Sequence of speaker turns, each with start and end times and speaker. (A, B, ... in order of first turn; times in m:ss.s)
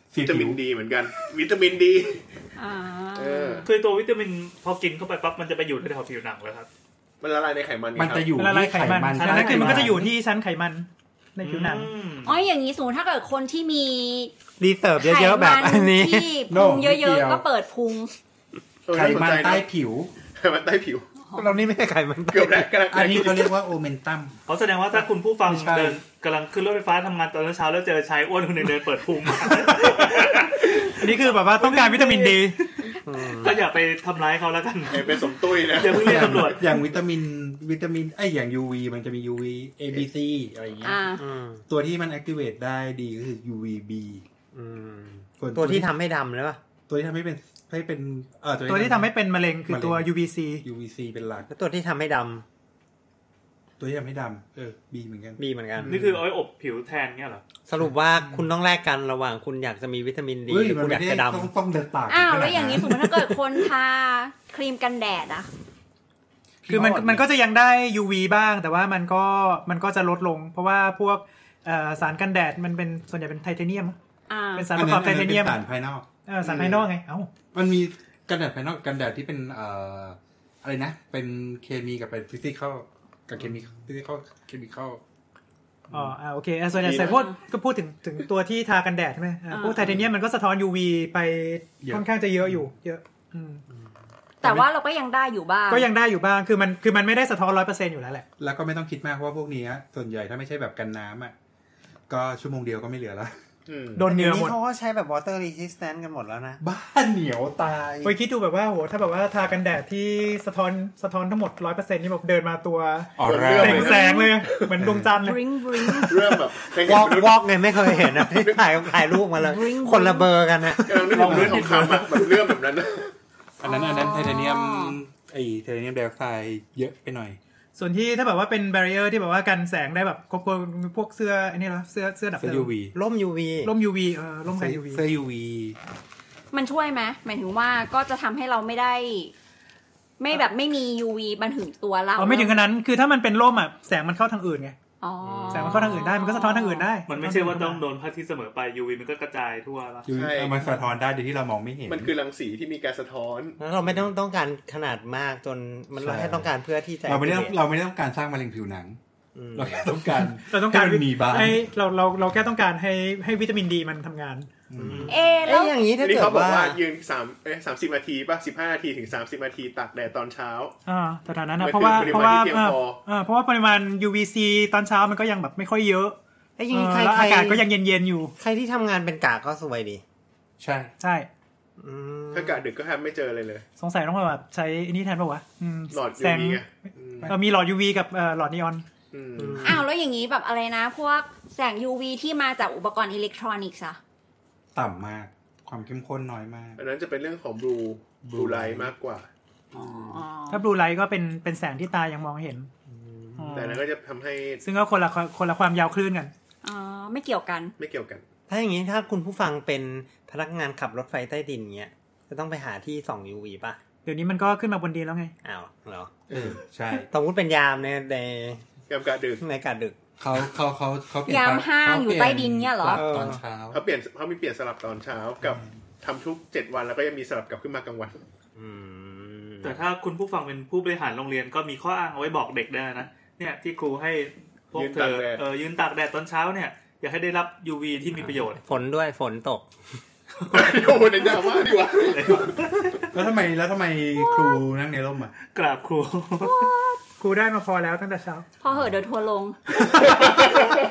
0:00.1-0:00.6 A
0:00.2-0:02.3 B
0:02.6-0:03.7 C
0:03.2-0:03.7 B
0:03.6-0:06.7 D
0:07.2-0:08.3 B
0:08.0-0:10.1 A
0:08.4-0:11.9 E
0:09.2-0:09.9 F
0:11.4-0:12.4 D
0:12.2-0:14.3 C
0:14.6-0:16.4 F
0:15.0-0:18.1 C
0:16.4-0:17.5 A
0:18.9-0:19.7 B
0:18.9-0:20.1 A
0:20.4-0:21.1 B
0:21.2-0:21.6 C
0:21.3-0:22.8 F
0:22.3-0:23.6 B
0:22.9-0:24.4 A
0:24.5-0:30.8 D
0:25.4-0:26.0 A
0:31.0-0:32.6 E
0:31.6-0:36.6 D
0:33.0-0:33.6 F
0:34.9-0:36.5 B
0:35.9-0:41.0 A
0:40.8-0:41.2 C
0:41.2-0:41.6 F
0:41.7-0:44.2 A
0:44.5-0:46.6 F
0:45.4-0:45.9 A
0:46.9-0:49.1 A
0:48.7-0:50.6 E
0:49.7-0:51.5 A
0:51.5-0:52.4 F
0:53.8-0:55.4 A
0:55.4-0:55.9 F
0:55.8-0:56.2 B
0:55.8-0:57.4 D
0:57.7-1:01.5 F
1:00.5-1:03.4 A
1:02.1-1:05.5 C
1:06.6-1:07.3 A
1:06.7-1:14.0 E
1:14.3-1:14.7 C
1:14.5-1:15.6 E
1:14.7-1:16.1 A
1:16.3-1:17.3 E
1:16.4-1:16.8 B
1:17.5-1:25.0 A
1:25.9-1:33.6 E
1:26.8-1:27.2 B
1:27.1-1:27.4 C
1:29.5-1:29.9 C
1:31.8-1:32.7 A
1:34.4-1:35.9 C
1:35.7-1:38.2 E
1:38.4-1:41.3 A
1:42.1-1:43.3 A
1:43.7-1:44.1 B
1:44.0-1:44.6 E
1:44.0-1:46.6 F
1:46.6-1:48.2 A
1:48.0-1:55.4 E
1:53.2-1:54.0 A
1:53.2-1:54.7 B
1:53.9-1:54.4 C
1:54.8-1:55.1 A
1:55.2-1:56.3 C
1:56.0-1:59.2 B
1:56.8-2:01.5 F
1:59.4-2:00.3 C
2:00.8-2:03.1 B
2:01.1-2:02.1 D
2:01.2-2:01.6 A
2:03.6-2:07.4 A
2:03.6-2:05.0 C
2:07.8-2:12.7 E
2:12.4-2:13.0 A
2:12.9-2:13.7 F
2:13.6-2:15.0 E
2:14.5-2:15.8 A
2:16.5-2:19.3 C
2:20.2-2:22.6 C
2:22.2-2:24.8 E
2:25.0-2:26.9 C
2:25.2-2:26.0 F
2:25.5-2:27.8 E
2:27.1-2:30.1 D
2:30.1-2:32.1 A
2:30.1-2:30.7 B
2:31.9-2:33.6 B
2:33.6-2:37.6 F
2:36.0-2:36.5 A
2:37.0-2:39.0 A
2:39.4-2:40.0 F
2:39.5-2:41.6 A
2:40.5-2:44.5 E
2:44.7-2:45.2 A
2:44.8-2:46.8 F
2:45.1-2:45.8 C
2:45.9-2:50.7 B
2:50.9-2:56.2 E
2:51.6-2:53.0 B
2:56.6-2:57.7 F
2:56.7-2:58.3 E
2:58.4-3:00.0 F
3:00.6-3:00.9 A
3:01.0-3:01.3 E
3:01.8-3:02.6 F
3:02.3-3:03.6 B
3:03.8-3:06.6 E
3:05.9-3:07.3 B
3:07.2-3:08.8 E
3:09.1-3:09.8 B
3:09.4-3:09.9 F
3:09.6-3:14.0 C
3:14.8-3:16.8 A
3:16.8-3:19.3 B
3:18.2-3:18.9 A
3:19.8-3:20.2 F
3:19.8-3:20.7 C
3:20.5-3:22.7 E
3:22.9-3:23.6 F
3:23.4-3:23.8 E
3:23.5-3:24.6 B
3:24.6-3:26.3 E
3:26.6-3:27.7 C
3:27.8-3:28.2 B
3:28.5-3:33.8 F
3:34.0-3:35.3 E
3:35.4-3:36.1 F
3:36.3-3:37.1 A
3:37.0-3:38.6 F
3:38.9-3:39.4 B
3:39.4-3:40.0 F
3:40.2-3:43.8 A
3:41.3-3:43.0 C
3:42.9-3:43.4 F
3:43.7-3:48.2 B
3:48.6-3:49.8 F
3:49.6-3:58.6 D
3:54.8-3:55.4 B
3:58.2-3:59.7 F
4:00.4-4:01.0 D
4:00.5-4:02.5 B
4:02.0-4:03.0 D
4:03.1-4:05.3 A
4:04.2-4:04.6 C
4:05.5-4:06.7 D
4:06.4-4:07.0 C
4:07.2-4:08.5 E
4:08.6-4:10.3 C
4:09.8-4:10.7 D
4:10.0-4:10.6 B